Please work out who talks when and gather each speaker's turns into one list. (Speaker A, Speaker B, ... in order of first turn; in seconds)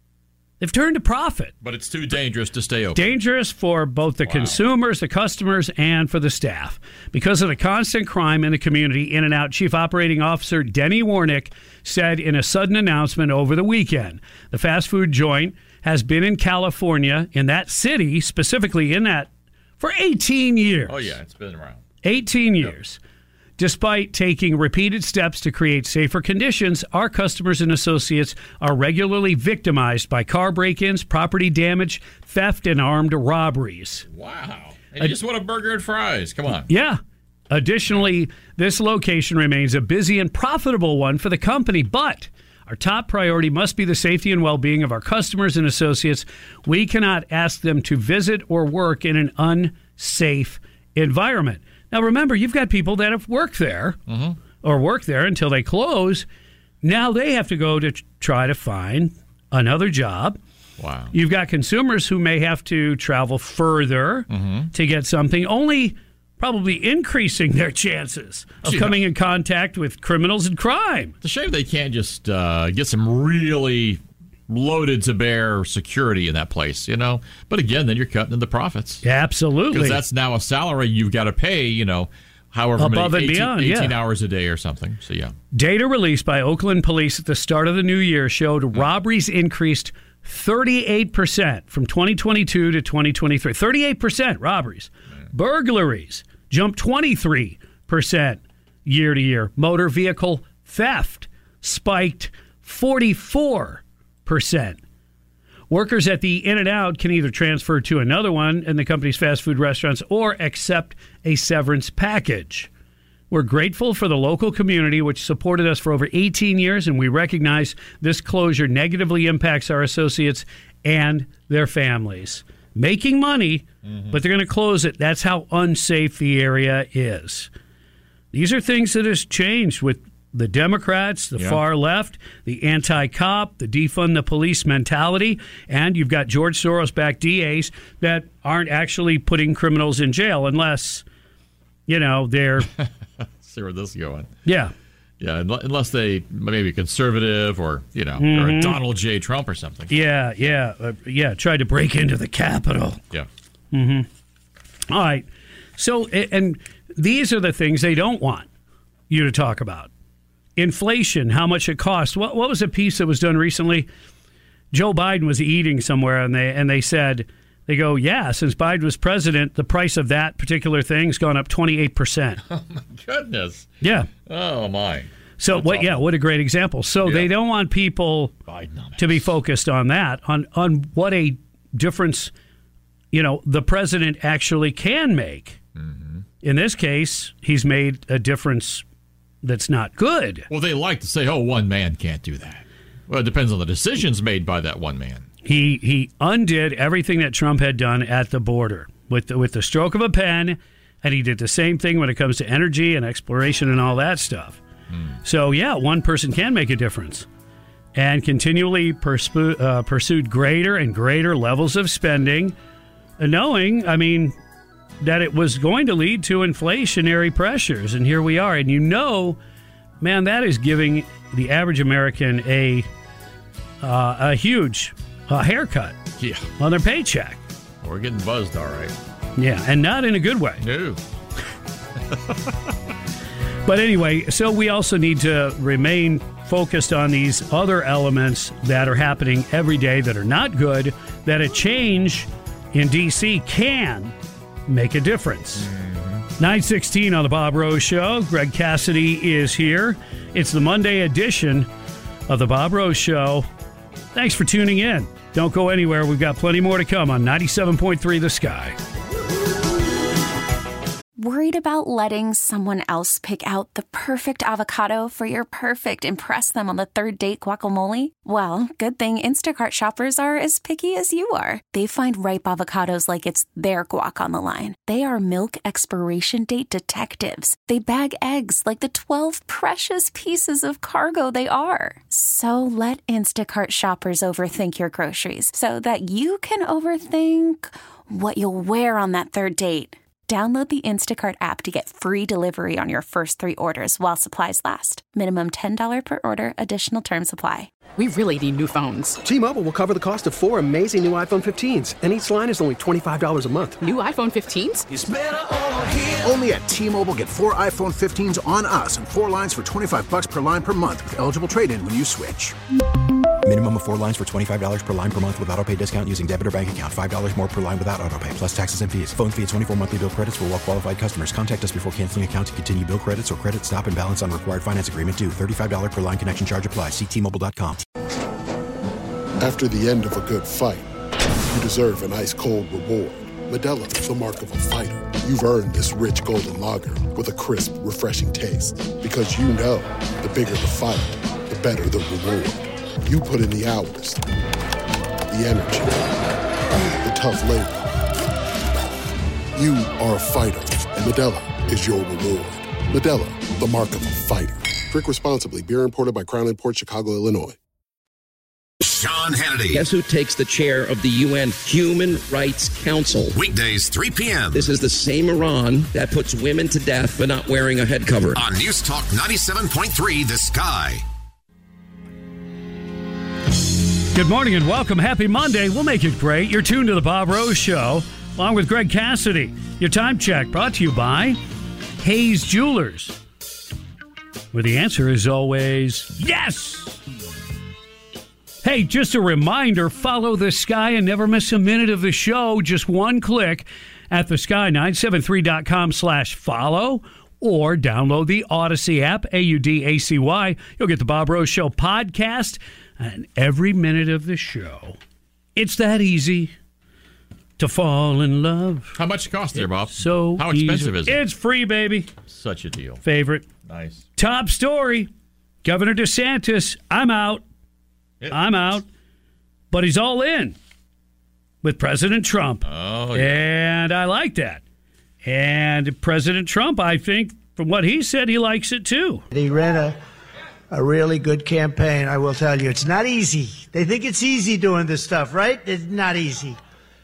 Speaker A: 0.6-1.5, 2.9-21.1, 22.0-23.0, 23.6-34.0, 36.7-37.0, 37.5-54.0, 54.6-56.2, 56.8-60.4, 61.1-71.1, 79.0-80.0, 82.8-83.9, 85.5-104.8, 105.7-112.7, 113.3-127.5, 128.3-141.0, 141.9-142.7, 144.4-144.7, 148.2-148.8, 149.9-153.0, 153.7-154.1, 154.9-158.5, 159.1-159.9, 160.6-163.9, 164.7-172.4, 173.8-174.1, 175.4-178.3, 179.0-182.3, 183.1-185.6, 186.4-188.8, 189.4-190.5, 195.4-204.6, 205.2-207.3, 207.9-212.5, 213.2-214.3, 215.0-219.4, 220.0-222.9, 223.8-226.0, 226.6-227.4, 229.4-230.6, 233.7-244.1, 244.7-245.7, 246.4-251.7, 252.3-253.5, 254.1-258.8, 374.1-381.4, 382.0-383.2, 384.5-387.0, 388.6-405.0, 405.6-406.5, 407.6-408.9, 409.6-412.1, 413.0-413.4, 414.2-415.1, 415.6-417.4, 418.3-418.9, 419.7-420.6, 421.6-424.6, 425.2-429.2
Speaker B: 1.6-3.1, 4.2-4.6, 20.9-21.8, 34.1-36.7, 54.1-54.4, 60.8-61.1, 64.3-64.7, 68.6-69.0, 71.2-79.0, 79.7-85.3, 123.8-124.2, 142.7-144.3, 145.2-149.9, 172.5-176.1, 177.0-177.3, 178.5-179.3, 185.8-186.2, 190.5-195.3, 204.9-205.2, 226.2-226.5, 227.8-228.9, 230.6-231.0, 245.6-246.2, 408.9-411.2, 412.3-413.0, 413.6-414.1, 422.6-423.5
Speaker C: 261.2-297.7
Speaker D: 298.0-299.2, 303.8-304.8
Speaker E: 299.2-303.8
Speaker F: 304.9-312.5
Speaker G: 313.4-327.8
Speaker H: 329.4-330.9, 331.5-344.2, 345.3-346.1, 347.0-347.8, 349.6-357.6
Speaker I: 358.8-359.8, 363.3-364.6, 368.4-371.0
Speaker J: 359.7-363.3, 364.5-368.4
Speaker K: 429.3-430.0, 430.7-436.6